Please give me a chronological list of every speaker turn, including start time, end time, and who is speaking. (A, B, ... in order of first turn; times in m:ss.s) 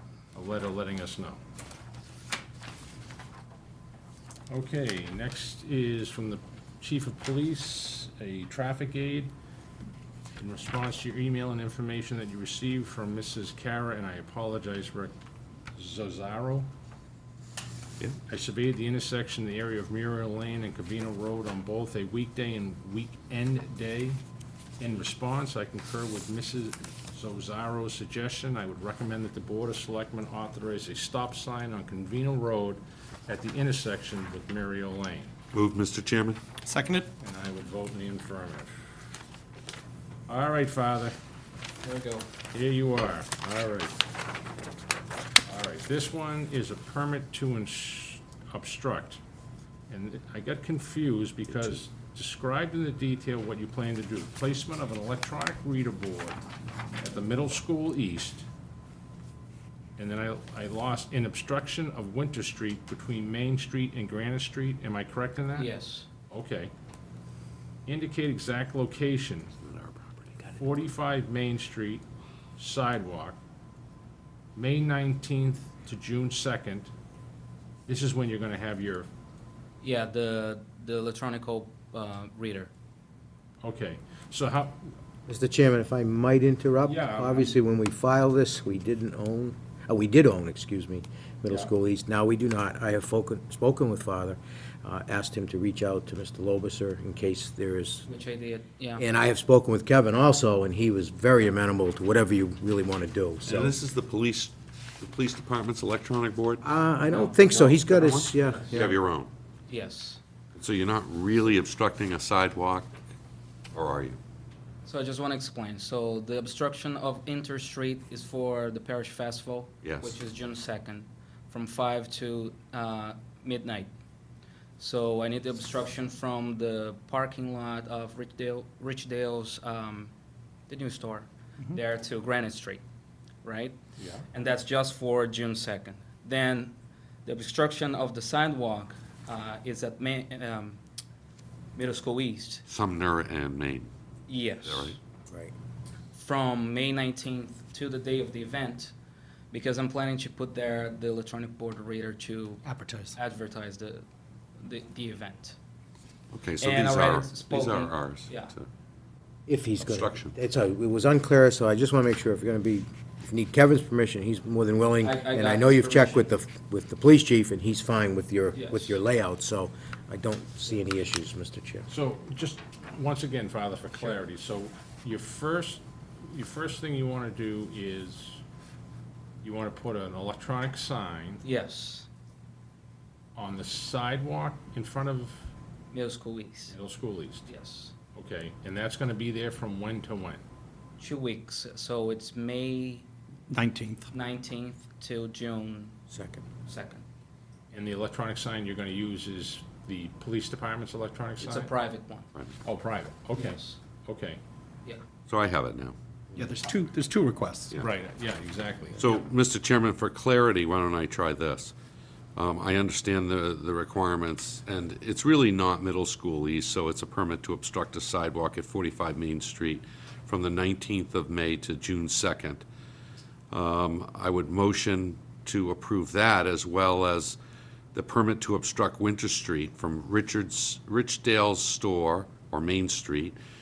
0:00.4-0:01.4 A
0:04.5-0:09.3 A
0:10.4-0:15.1 A
0:15.8-0:16.7 A
0:18.3-0:24.2 A
0:24.8-0:35.3 A
0:35.5-0:36.4 B
0:36.7-0:37.1 C
0:37.2-0:38.7 A
0:40.3-0:41.2 A
0:41.8-0:42.3 D
0:42.5-0:44.0 A
0:45.4-0:49.2 A
0:49.9-0:56.4 A
0:57.0-0:58.5 A
1:00.0-1:05.7 A
1:05.6-1:06.1 D
1:06.3-1:06.7 A
1:07.9-1:09.6 A
1:09.6-1:10.6 B
1:10.6-1:12.0 A
1:12.6-1:13.4 A
1:14.6-1:16.9 A
1:17.9-1:19.1 A
1:19.8-1:22.7 D
1:23.6-1:24.9 A
1:25.3-1:38.1 E
1:26.8-1:27.6 A
1:38.1-1:39.0 D
1:39.0-1:43.8 E
1:43.5-1:46.6 B
1:46.6-1:49.0 E
1:47.1-1:47.5 D
1:47.4-1:49.3 B
1:48.5-1:48.8 D
1:49.7-1:50.2 D
1:50.6-1:52.9 B
1:53.7-1:54.2 B
1:54.8-2:03.9 D
1:59.8-2:00.2 B
2:04.8-2:10.1 D
2:10.7-2:12.8 D
2:13.4-2:13.8 D
2:14.0-2:14.2 A
2:14.3-2:16.7 D
2:17.3-2:20.8 D
2:21.8-2:22.6 D
2:22.7-2:23.9 B
2:24.3-2:25.0 D
2:24.6-2:25.0 B
2:25.3-2:25.5 E
2:26.1-2:28.9 D
2:29.5-2:32.6 D
2:33.2-2:34.0 D
2:34.6-2:35.6 D
2:36.3-2:38.7 B
2:36.6-2:38.6 D
2:39.5-2:51.9 E
2:39.8-2:40.4 B
2:45.0-2:46.3 D
2:48.5-2:49.0 D
2:51.9-2:58.4 A
2:59.4-3:01.4 A
3:01.4-3:02.1 D
3:03.4-3:05.5 A
3:05.9-3:06.8 D
3:06.7-3:07.5 A
3:07.5-3:08.0 D
3:08.1-3:10.4 A
3:11.0-3:13.1 D
3:13.5-3:14.1 C
3:14.1-3:16.0 D
3:16.1-3:16.4 E
3:16.7-3:17.0 D
3:17.7-3:21.7 A
3:21.4-3:22.3 D
3:22.6-3:24.4 A
3:23.3-3:23.8 D
3:25.3-3:26.0 B
3:26.4-3:27.8 C
3:27.8-3:29.2 A
3:29.0-3:31.7 B
3:32.4-3:42.6 B
3:43.5-3:47.4 B
3:47.9-3:53.4 B